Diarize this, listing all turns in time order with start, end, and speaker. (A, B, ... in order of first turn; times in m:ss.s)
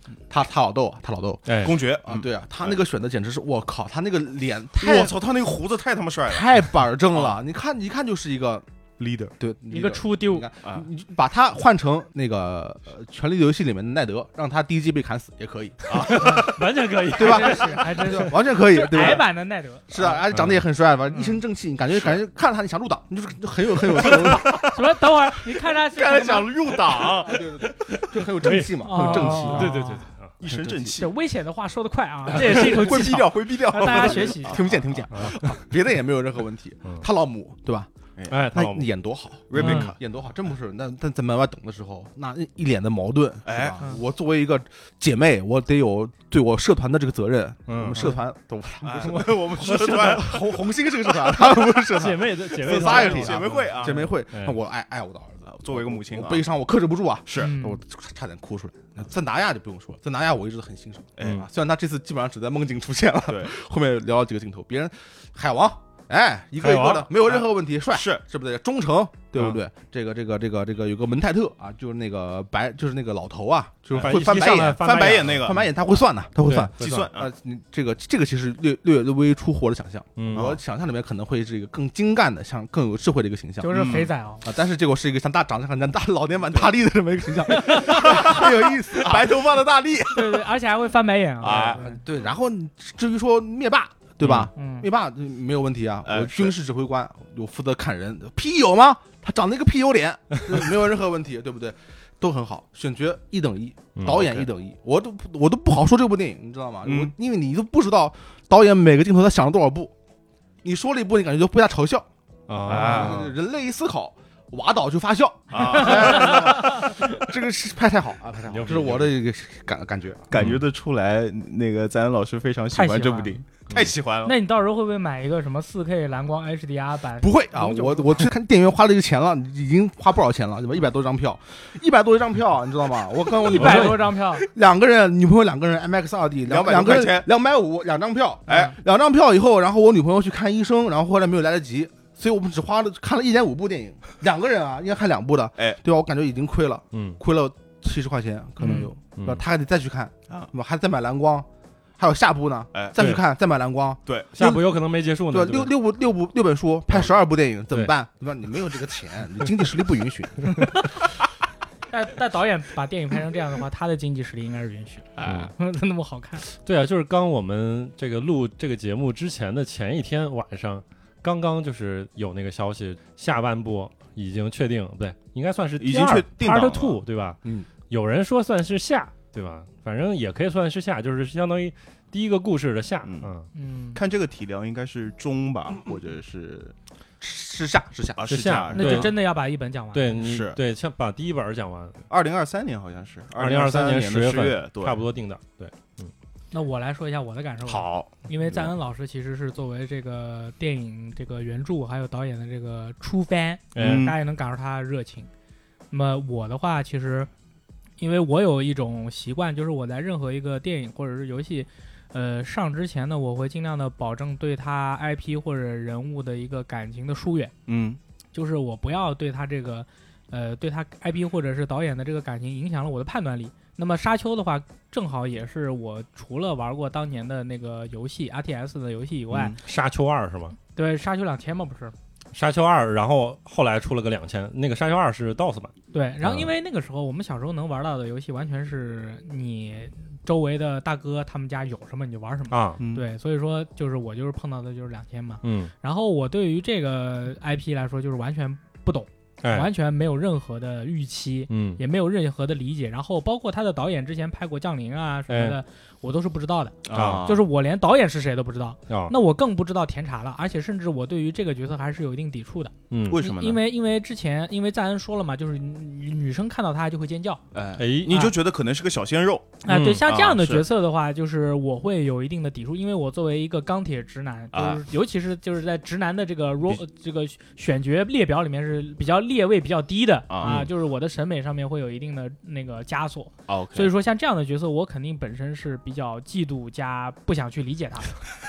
0:00.3-0:05.1 A
0:01.5-0:01.8 B
0:01.6-0:02.8 C
0:04.8-0:07.4 C
0:06.3-0:08.6 A
0:09.0-0:09.3 C
0:09.4-0:19.3 A
0:09.7-0:10.5 D
0:15.9-0:16.5 C
0:15.9-0:18.3 B
0:17.1-0:19.9 D
0:19.9-0:24.8 A
0:20.3-0:20.6 B
0:21.1-0:21.4 D
0:21.9-0:22.2 C
0:23.8-0:25.0 C
0:24.6-0:27.0 D
0:25.7-0:28.0 C
0:27.0-0:29.8 A
0:28.1-0:30.3 B
0:28.8-0:30.1 D
0:30.4-0:31.1 C
0:30.4-0:31.1 A
0:31.0-0:34.6 D
0:32.3-0:35.5 C
0:32.5-0:37.9 A
0:35.1-0:35.5 B
0:38.2-0:38.4 C
0:38.3-0:38.9 B
0:38.5-1:30.4 A
0:39.5-0:40.0 C
0:39.5-0:40.0 B
0:43.4-0:43.8 C
0:47.7-0:48.1 B
0:48.8-0:51.8 C
0:49.8-0:50.2 B
0:51.6-0:54.6 B
0:52.5-0:54.1 C
0:55.5-0:56.4 C
0:57.2-0:57.5 C
0:57.3-0:57.8 D
1:01.2-1:01.4 C
1:01.2-1:01.5 B
1:06.6-1:07.1 B
1:07.1-1:08.2 C
1:13.9-1:15.6 C
1:13.9-1:15.7 B
1:16.4-1:17.1 B
1:16.8-1:17.3 C
1:20.2-1:20.6 B
1:20.3-1:20.6 C
1:23.6-1:24.4 D
1:23.7-1:24.1 C
1:27.4-1:30.3 C
1:30.1-1:32.0 D
1:31.4-1:31.8 C
1:31.4-1:49.9 A
1:34.2-1:34.5 C
1:34.6-1:34.8 D
1:36.0-1:36.5 C
1:43.9-1:44.4 B
1:46.8-1:47.1 C
1:50.6-1:52.1 A
1:52.5-1:53.2 B
1:52.6-2:00.3 A
1:52.6-1:53.3 C
1:55.5-1:56.8 C
1:58.5-1:59.1 B
2:00.3-2:04.4 C
2:00.3-2:00.6 B
2:02.7-2:03.4 D
2:04.2-2:08.3 D
2:07.2-2:31.5 A
2:13.4-2:14.4 D
2:13.5-2:14.1 B
2:16.5-2:17.3 C
2:18.5-2:18.8 D
2:26.9-2:27.2 B
2:28.6-2:28.9 D
2:29.2-2:29.4 B
2:32.0-2:34.8 A
2:34.0-2:34.3 C
2:34.4-2:35.7 B
2:35.3-2:40.8 A
2:41.9-2:46.5 D
2:45.2-2:45.5 B
2:46.5-2:57.4 B
2:55.8-2:57.0 C
2:57.9-3:03.5 B
3:03.0-3:03.3 C
3:03.5-3:04.0 D
3:03.9-3:06.7 C
3:07.2-3:08.7 A
3:08.1-3:09.1 C
3:08.3-3:09.2 B
3:08.7-3:10.2 D
3:09.9-3:12.0 B
3:10.1-3:10.6 C
3:12.1-3:15.0 C
3:13.4-3:16.1 B
3:16.5-3:25.3 D
3:17.6-3:18.7 C
3:23.7-3:24.1 B
3:23.8-3:24.2 C
3:25.9-3:27.3 D
3:28.0-3:37.5 D
3:37.7-3:38.0 C
3:38.3-3:49.6 D
3:49.3-3:49.6 C
3:49.6-3:50.6 B
3:50.7-3:51.9 D
3:52.3-3:55.7 B
3:55.9-4:27.4 D
3:56.2-3:56.5 B
4:02.5-4:02.8 B
4:02.8-4:03.0 C
4:05.4-4:05.7 B
4:09.4-4:09.7 B
4:11.5-4:11.8 B
4:15.3-4:15.6 B
4:16.8-4:17.4 C
4:16.9-4:17.2 B
4:18.9-4:19.1 B
4:22.9-4:23.2 B
4:23.0-4:23.6 C
4:27.5-4:30.6 C
4:27.8-4:28.3 B
4:29.6-4:48.2 D
4:29.7-4:30.0 B
4:34.5-4:34.8 C
4:40.3-4:40.7 C
4:40.4-4:40.7 B
4:43.5-4:43.9 C